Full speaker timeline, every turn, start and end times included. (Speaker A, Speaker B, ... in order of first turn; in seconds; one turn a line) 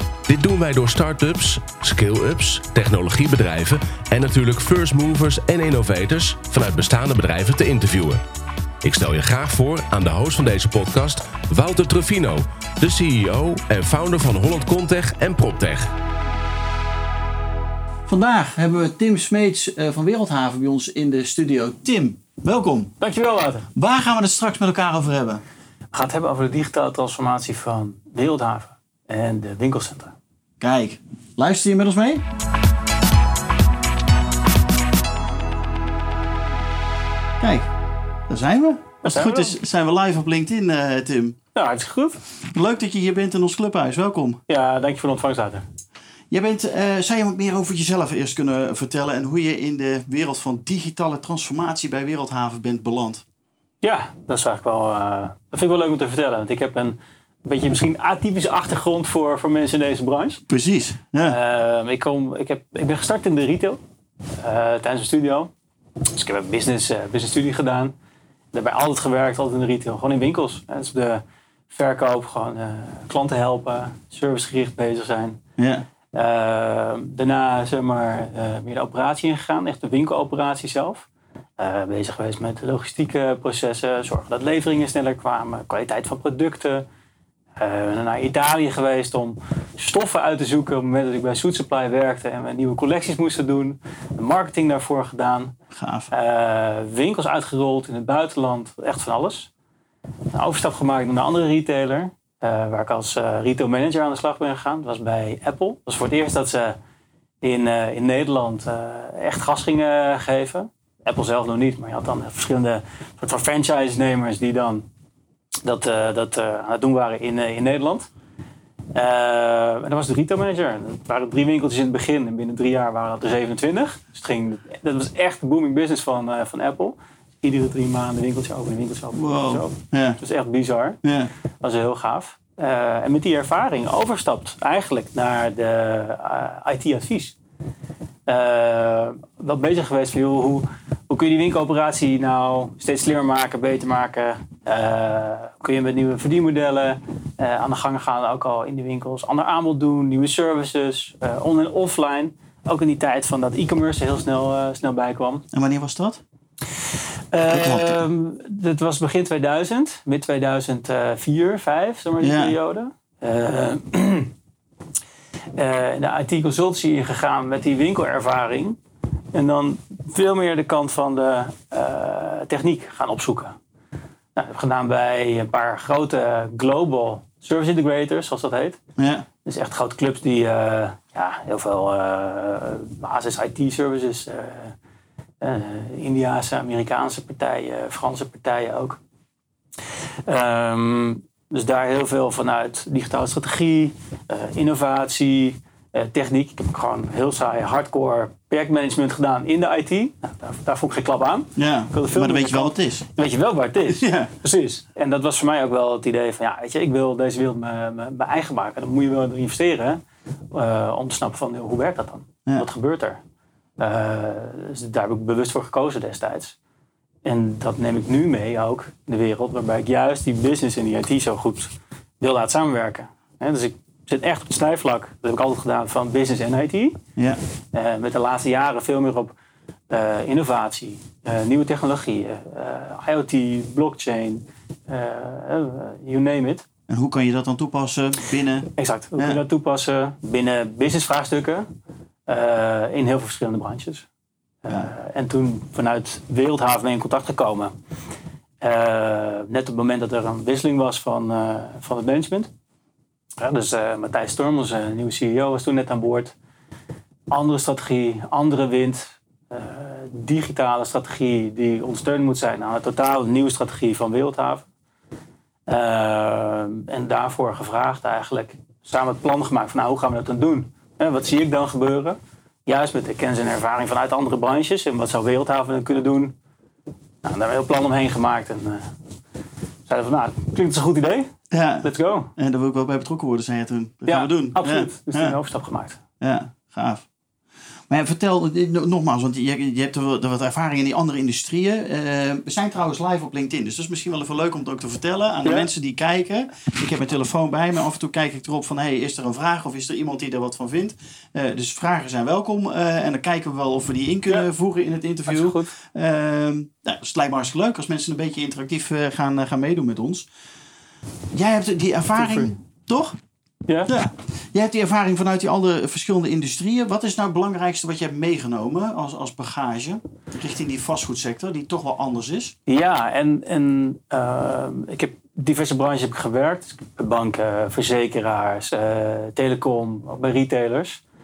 Speaker A: 0.3-8.2
Speaker A: 8.8-15.9
Speaker B: 18.1-22.9
Speaker C: 23.0-23.7
Speaker B: 23.8-25.4
Speaker C: 25.9-30.1
Speaker B: 30.6-32.2
Speaker B: 37.4-37.7
Speaker B: 38.3-41.4
Speaker C: 39.0-39.6
Speaker C: 41.5-42.2
Speaker B: 42.5-44.4
Speaker C: 44.5-45.6
Speaker B: 46.3-53.2
Speaker C: 53.8-60.4
Speaker B: 60.5-61.4
Speaker C: 61.2-63.8
Speaker C: 64.4-65.5
Speaker C: 66.1-67.9
Speaker C: 68.5-75.4
Speaker B: 75.6-75.8
Speaker C: 76.1-81.1
Speaker C: 81.6-86.8
Speaker C: 87.6-95.5
Speaker B: 95.7-96.1
Speaker C: 96.1-99.5
Speaker C: 100.3-106.8
Speaker C: 107.4-114.8
Speaker C: 115.6-118.1
Speaker C: 118.9-131.0
Speaker B: 129.1-130.2
Speaker B: 131.0-131.3
Speaker C: 131.6-137.3
Speaker C: 138.3-155.5
Speaker B: 155.5-156.2
Speaker C: 157.3-164.3
Speaker B: 157.4-158.0
Speaker B: 162.2-162.6
Speaker C: 165.5-168.8
Speaker C: 169.3-173.6
Speaker C: 174.3-178.8
Speaker B: 179.0-179.2
Speaker C: 179.4-184.8
Speaker C: 185.4-189.0
Speaker C: 190.2-210.0
Speaker B: 201.6-203.1
Speaker B: 203.9-204.3
Speaker C: 210.5-213.2
Speaker C: 213.8-216.6
Speaker C: 217.2-227.0
Speaker C: 227.7-229.3
Speaker C: 229.9-236.7
Speaker B: 236.9-239.4
Speaker C: 238.7-241.7
Speaker C: 242.3-244.1
Speaker C: 244.6-247.7
Speaker C: 248.6-252.5
Speaker C: 253.4-256.3
Speaker C: 257.3-264.6
Speaker C: 265.7-276.3
Speaker C: 277.2-278.9
Speaker C: 279.9-282.3
Speaker B: 281.5-285.4
Speaker C: 284.1-286.0
Speaker B: 286.2-287.1
Speaker B: 287.9-310.3
Speaker C: 295.4-295.7
Speaker C: 305.3-305.7
Speaker B: 311.3-313.1
Speaker C: 312.2-312.5
Speaker C: 313.7-313.9
Speaker B: 313.9-322.5
Speaker C: 322.7-331.0